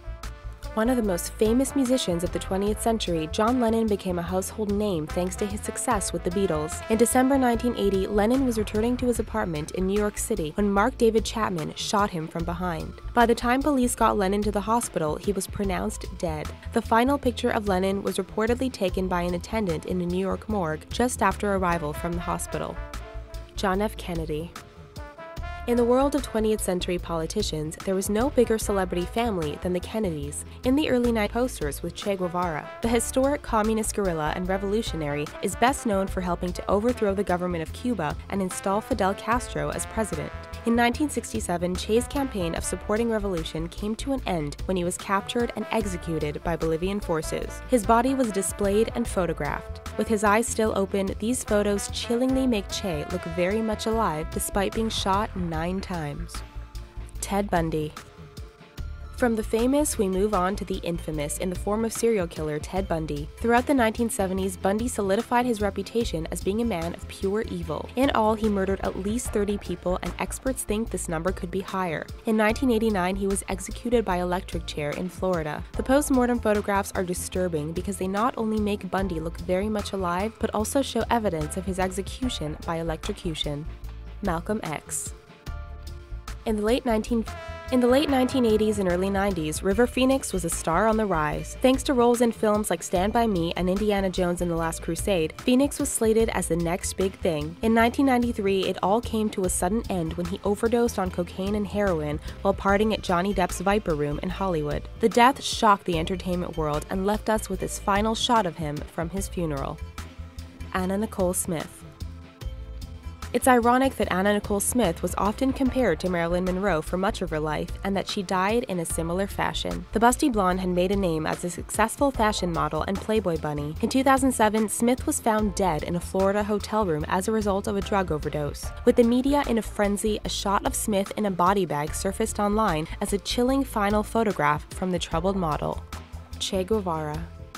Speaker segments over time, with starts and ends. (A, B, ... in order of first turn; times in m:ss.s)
0:00.7-0:22.8 A
0:23.5-0:24.5 A
0:25.7-0:56.4 A
0:57.2-0:58.0 A
0:59.1-1:23.7 A
1:24.2-1:25.1 A
1:26.4-1:49.8 A
1:50.7-1:51.8 A
1:53.3-2:15.8 A
2:16.4-2:17.3 A